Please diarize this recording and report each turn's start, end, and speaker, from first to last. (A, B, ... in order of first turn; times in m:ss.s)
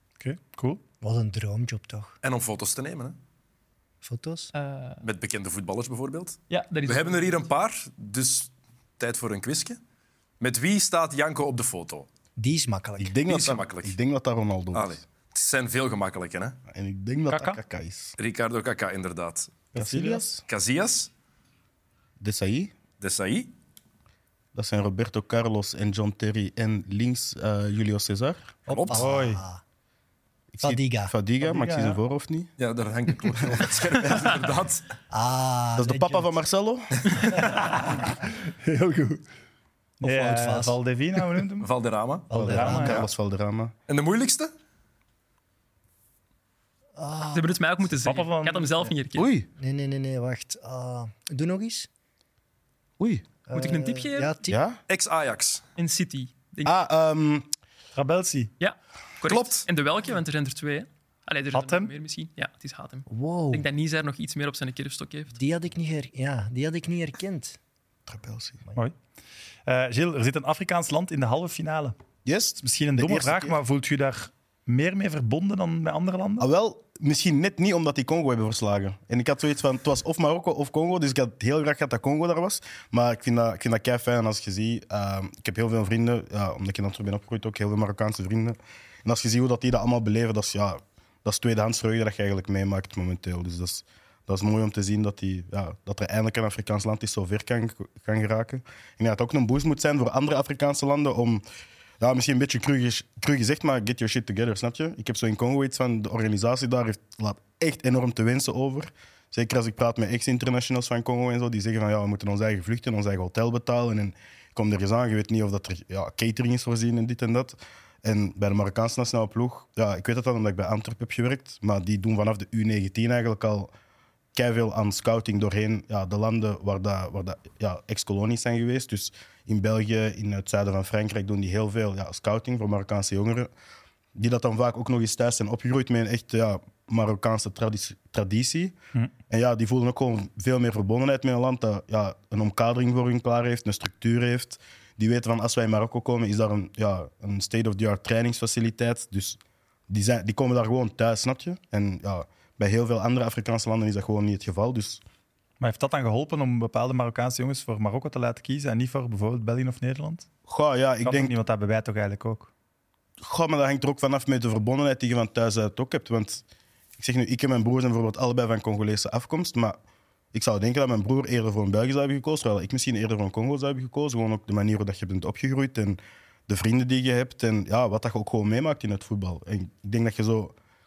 0:00.2-0:00.8 A
0:01.0-0:02.2 B
0:02.2-0:03.2 C
0:04.0-0:04.5 B
0:04.5-0:05.0 D
0:05.0-0:09.8 C
0:06.5-0:07.5 D
0:10.4-0:12.1 C
0:12.4-0:13.2 B
0:13.0-0:15.0 E
0:13.2-0:14.0 C
0:14.7-0:16.6 C
0:16.7-0:18.2 E
0:17.3-0:17.6 A
0:18.2-0:19.7 C
0:19.7-0:20.2 A
0:19.7-0:20.4 E
0:20.4-0:21.1 C
0:22.2-0:22.7 E
0:23.0-0:23.5 C
0:24.5-0:28.6 E
0:28.7-0:29.0 C
0:28.7-0:29.6 B
0:28.9-0:29.4 A
0:30.5-0:32.5 E
0:30.6-0:31.1 B
0:31.4-0:32.0 A
0:32.6-0:34.8 C
0:35.1-0:36.3 B
0:35.8-0:37.4 E
0:38.5-0:39.2 A
0:40.0-0:40.8 B
0:40.0-0:41.7 A
0:41.6-0:42.3 C
0:42.3-0:43.1 B
0:42.3-0:43.7 E
0:42.4-0:43.1 A
0:43.9-0:44.5 C
0:47.0-0:47.6 B
0:47.3-0:49.3 D
0:48.0-0:48.9 A
0:49.1-0:49.4 E
0:49.5-0:51.9 B
0:53.0-0:53.3 E
0:53.5-0:54.6 B
0:53.5-0:54.3 D
0:54.5-0:54.8 E
0:54.9-0:55.6 C
0:55.8-0:56.8 D
0:56.6-0:57.5 E
0:57.9-0:58.5 A
0:58.6-1:05.4 D
0:59.2-0:59.6 C
1:01.5-1:01.9 A
1:03.1-1:03.7 B
1:05.3-1:07.6 B
1:08.1-1:08.6 E
1:09.6-1:12.0 A
1:12.2-1:13.6 E
1:12.6-1:16.5 A
1:16.4-1:41.4 E
1:42.0-2:03.7 E
2:04.3-2:13.5 E
2:14.2-2:18.8 E
2:19.3-2:35.0 E
2:35.6-2:40.3 A
2:40.5-2:41.3 E
2:41.0-2:42.5 A
2:43.2-2:46.4 E
2:47.0-2:49.8 E
2:50.3-3:00.5 E